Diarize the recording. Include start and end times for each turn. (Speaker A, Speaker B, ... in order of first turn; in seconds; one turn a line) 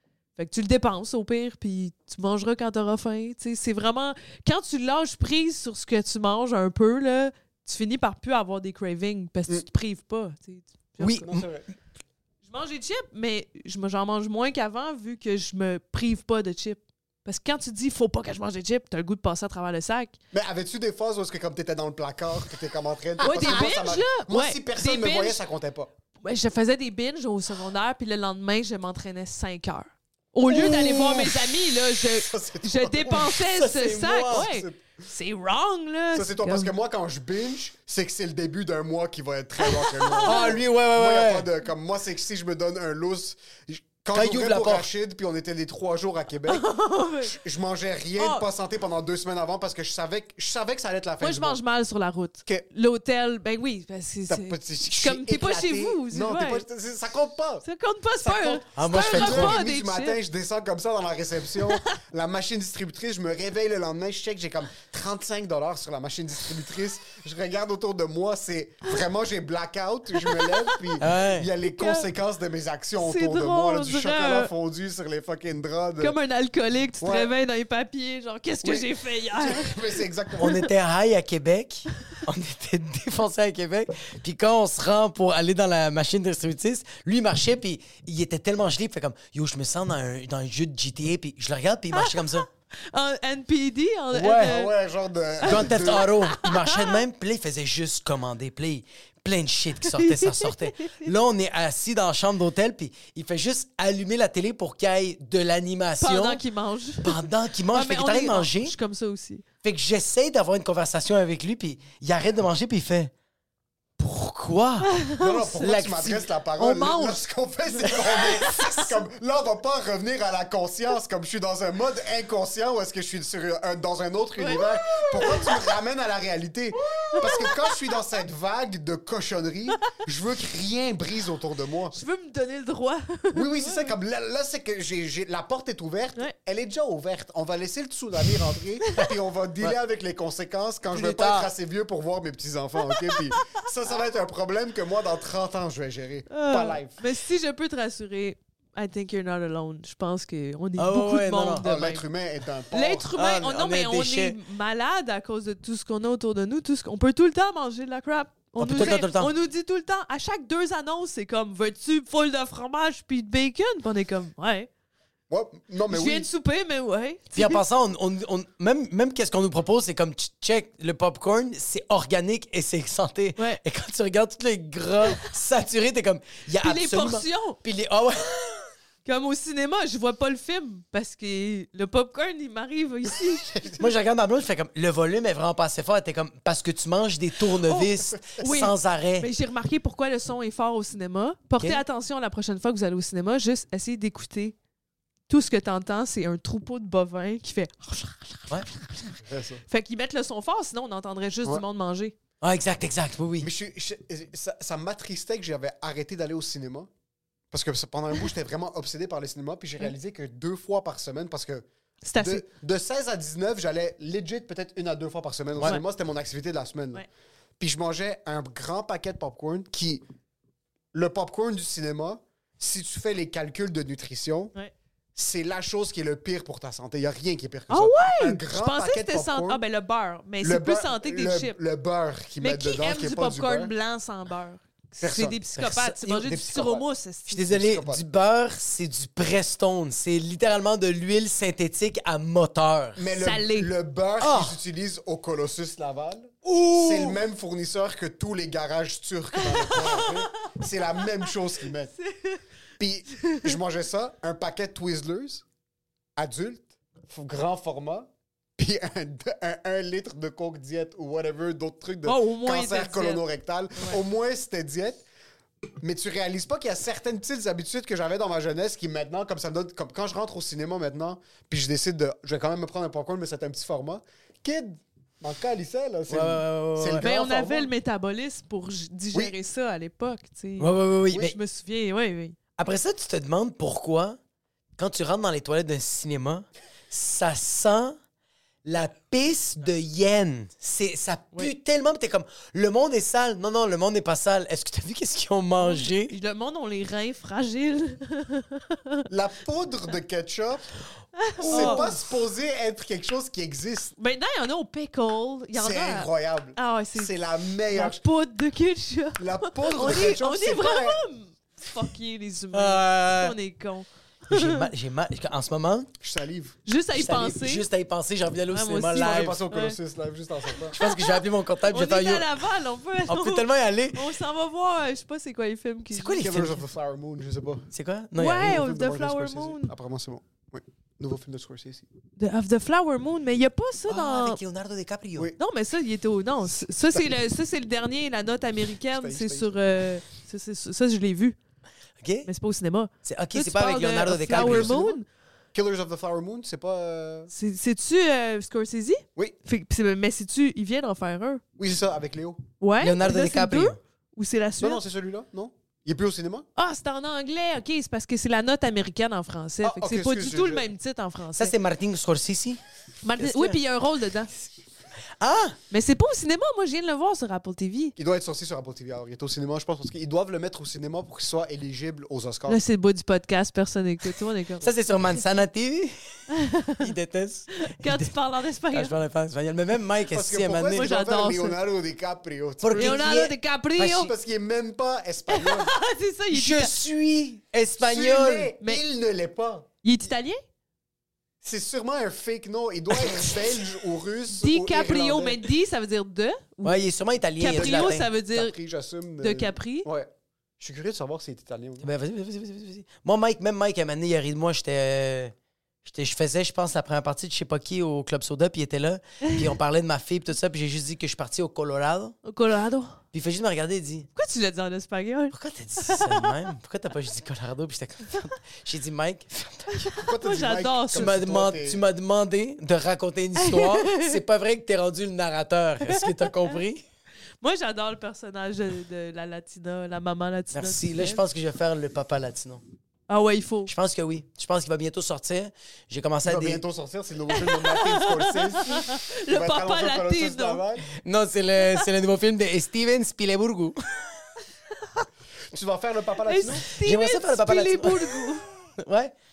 Speaker A: 0.4-11.2
Speaker B: 11.0-11.5
Speaker C: 11.2-11.6
Speaker A: 12.4-20.2
Speaker C: 20.3-25.9
Speaker A: 23.2-25.4
Speaker B: 23.2-23.7
Speaker A: 26.2-36.7
Speaker B: 30.5-31.4
Speaker C: 32.1-33.4
Speaker B: 33.2-34.5
Speaker C: 34.3-34.8
Speaker C: 36.1-46.6
Speaker A: 39.6-40.6
Speaker B: 40.2-41.5
Speaker B: 44.1-44.9
Speaker A: 46.5-47.4
Speaker C: 47.2-51.6
Speaker A: 48.2-48.4
Speaker A: 51.2-56.6
Speaker C: 54.3-57.6
Speaker A: 57.6-60.2
Speaker C: 58.2-76.2
Speaker B: 58.8-59.6
Speaker A: 70.2-70.8
Speaker B: 71.0-71.5
Speaker A: 71.8-72.0
Speaker A: 73.0-74.5
Speaker A: 76.0-80.4
Speaker C: 77.0-77.3
Speaker C: 78.6-80.5
Speaker B: 80.4-92.5
Speaker A: 91.9-94.7
Speaker B: 94.1-94.5
Speaker C: 94.3-96.1
Speaker A: 95.4-97.0
Speaker B: 95.5-106.4
Speaker A: 99.9-101.1
Speaker A: 106.0-107.2
Speaker B: 107.0-108.7
Speaker A: 107.7-109.4
Speaker B: 109.6-113.1
Speaker B: 114.0-114.9
Speaker A: 114.9-117.2
Speaker C: 115.2-132.0
Speaker B: 115.6-116.2
Speaker A: 117.8-118.9
Speaker B: 117.9-118.4
Speaker A: 124.4-125.6
Speaker A: 126.9-127.7
Speaker A: 131.9-133.9
Speaker C: 133.3-147.0
Speaker B: 140.9-141.5
Speaker A: 142.9-143.3
Speaker A: 146.3-152.0
Speaker B: 150.8-151.6
Speaker C: 151.6-153.1
Speaker A: 152.7-164.7
Speaker B: 153.1-154.4
Speaker B: 158.6-159.3
Speaker C: 165.3-166.3
Speaker A: 165.9-167.6
Speaker B: 167.3-178.7
Speaker A: 176.6-177.6
Speaker A: 179.0-183.6
Speaker C: 183.5-183.8
Speaker B: 183.8-189.3
Speaker A: 187.7-194.5
Speaker A: 195.3-199.2
Speaker C: 199.2-199.6
Speaker A: 199.7-202.1
Speaker B: 202.4-203.5
Speaker C: 203.4-206.9
Speaker C: 207.5-211.6
Speaker A: 212.0-212.4
Speaker C: 212.2-217.1
Speaker C: 217.6-220.0
Speaker C: 220.9-224.5
Speaker C: 225.1-229.6
Speaker A: 227.7-231.6
Speaker C: 230.4-233.7
Speaker A: 232.4-237.5
Speaker C: 235.0-235.4
Speaker B: 235.5-236.1
Speaker C: 236.1-236.8
Speaker B: 237.3-243.0
Speaker C: 237.4-238.0
Speaker C: 242.9-251.9
Speaker A: 243.2-243.7
Speaker B: 244.2-244.6
Speaker B: 246.4-247.2
Speaker A: 249.4-250.1
Speaker A: 252.0-252.4
Speaker C: 252.8-255.4
Speaker A: 253.2-253.5
Speaker C: 256.1-265.0
Speaker A: 262.0-264.0
Speaker C: 265.8-277.7
Speaker B: 276.1-277.0
Speaker A: 277.0-282.4
Speaker B: 280.6-281.4
Speaker B: 282.6-284.2
Speaker B: 284.8-288.0
Speaker B: 288.6-296.1
Speaker A: 295.6-299.0
Speaker C: 299.1-300.7
Speaker A: 301.2-301.9
Speaker C: 301.4-303.9
Speaker B: 301.5-301.9
Speaker A: 304.0-307.1
Speaker C: 305.5-308.0
Speaker A: 307.7-314.6
Speaker C: 309.2-311.0
Speaker B: 312.5-313.4
Speaker B: 314.3-315.9
Speaker C: 316.0-316.6
Speaker A: 316.6-317.6
Speaker B: 316.9-319.4
Speaker A: 318.5-319.8
Speaker C: 318.9-320.8
Speaker A: 320.7-326.2
Speaker B: 320.7-322.3
Speaker B: 323.1-324.1
Speaker B: 325.9-326.6
Speaker C: 326.2-327.7
Speaker B: 327.7-328.6
Speaker A: 328.1-329.7
Speaker C: 328.4-331.9
Speaker A: 332.2-334.4
Speaker B: 333.9-335.3
Speaker A: 335.4-341.4
Speaker C: 336.5-337.1
Speaker C: 338.9-339.6
Speaker B: 342.0-342.3
Speaker A: 342.2-345.0
Speaker B: 343.0-344.8
Speaker C: 344.3-345.0
Speaker C: 345.5-347.3
Speaker A: 347.3-351.4
Speaker C: 351.6-352.4
Speaker A: 352.6-354.8
Speaker B: 352.8-353.8
Speaker C: 354.6-356.4
Speaker A: 356.6-361.5
Speaker C: 359.6-360.7
Speaker B: 361.4-362.6
Speaker A: 363.0-364.3
Speaker B: 363.2-363.5
Speaker B: 365.2-365.6
Speaker A: 365.7-367.9
Speaker C: 368.0-372.6
Speaker A: 372.5-374.7
Speaker B: 374.6-375.9
Speaker A: 376.3-376.9
Speaker B: 376.8-378.1
Speaker A: 377.6-378.9
Speaker B: 378.7-380.9
Speaker C: 380.1-383.1
Speaker A: 380.7-381.6
Speaker B: 382.6-384.1
Speaker A: 382.7-384.1
Speaker C: 383.9-385.7
Speaker A: 385.3-386.7
Speaker B: 386.3-388.5
Speaker C: 387.8-389.7
Speaker A: 389.8-390.4
Speaker C: 391.4-395.4
Speaker A: 394.4-396.8
Speaker B: 396.6-398.1
Speaker A: 397.4-398.5
Speaker C: 397.5-401.9
Speaker A: 399.2-399.9
Speaker B: 401.8-412.2
Speaker A: 409.2-409.5
Speaker A: 412.2-413.0
Speaker B: 413.1-414.1
Speaker A: 414.1-416.3
Speaker B: 415.3-419.9
Speaker A: 419.7-421.1
Speaker C: 419.9-421.8
Speaker B: 420.9-426.8
Speaker A: 423.4-424.2
Speaker A: 425.9-426.6
Speaker A: 427.4-431.2
Speaker B: 430.5-432.6
Speaker A: 433.1-433.7
Speaker B: 433.7-436.6
Speaker C: 436.2-440.9
Speaker A: 437.3-440.6
Speaker B: 441.0-444.1
Speaker C: 445.5-446.6
Speaker A: 446.3-448.4
Speaker B: 446.7-448.2
Speaker B: 448.8-449.1